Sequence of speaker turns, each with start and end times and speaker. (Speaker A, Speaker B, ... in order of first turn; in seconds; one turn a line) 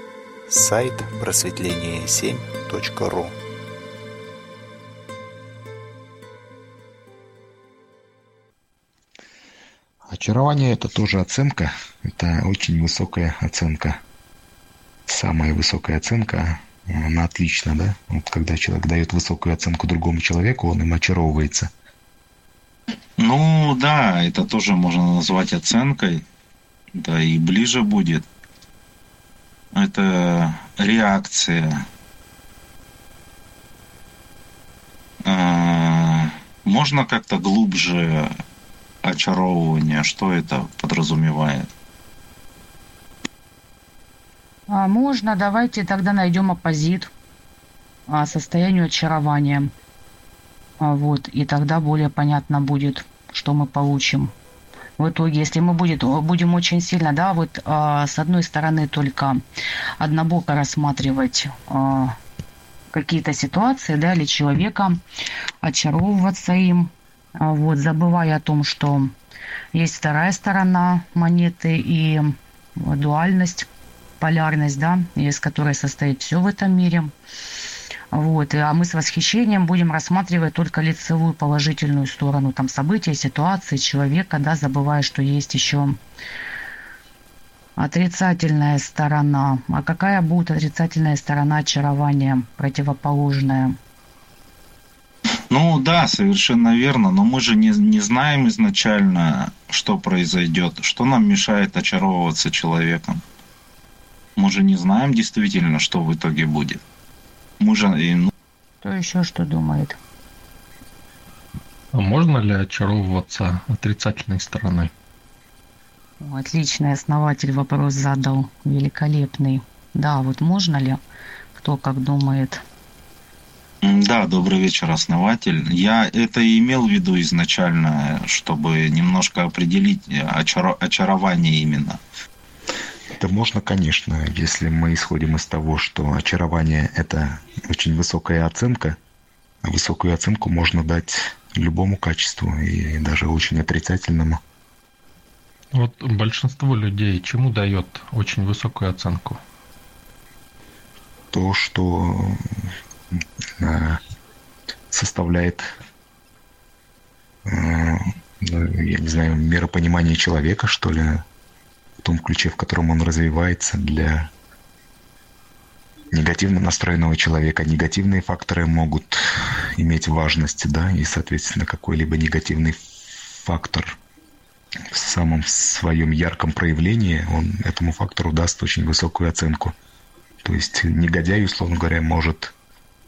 Speaker A: 0.5-3.4
Speaker B: 10.1-14.0
Speaker B: 15.1-21.7
Speaker C: 23.2-26.2
Speaker C: 26.9-28.2
Speaker C: 29.7-31.8
Speaker C: 35.2-38.3
Speaker C: 39.0-41.7
Speaker D: 44.7-47.1
Speaker D: 48.1-49.7
Speaker D: 50.8-54.3
Speaker D: 55.0-59.4
Speaker D: 60.0-62.1
Speaker D: 62.9-65.0
Speaker D: 65.6-69.1
Speaker D: 69.7-73.7
Speaker D: 74.2-77.1
Speaker D: 78.1-86.0
Speaker D: 87.8-93.8
Speaker C: 95.5-103.2
Speaker C: 104.4-106.8
Speaker C: 107.6-108.3
Speaker D: 108.8-110.0
Speaker E: 111.9-114.9
Speaker D: 116.2-121.0
Speaker D: 121.5-122.6
Speaker C: 123.8-132.0
Speaker B: 133.2-139.0
Speaker B: 139.6-144.4
Speaker E: 145.7-149.4
Speaker B: 151.3-152.7
Speaker B: 153.6-154.0
Speaker B: 154.9-155.8
Speaker B: 157.4-161.2
Speaker B: 162.0-164.3
Speaker B: 166.1-174.0
Speaker B: 174.9-179.8
Speaker B: 180.4-182.5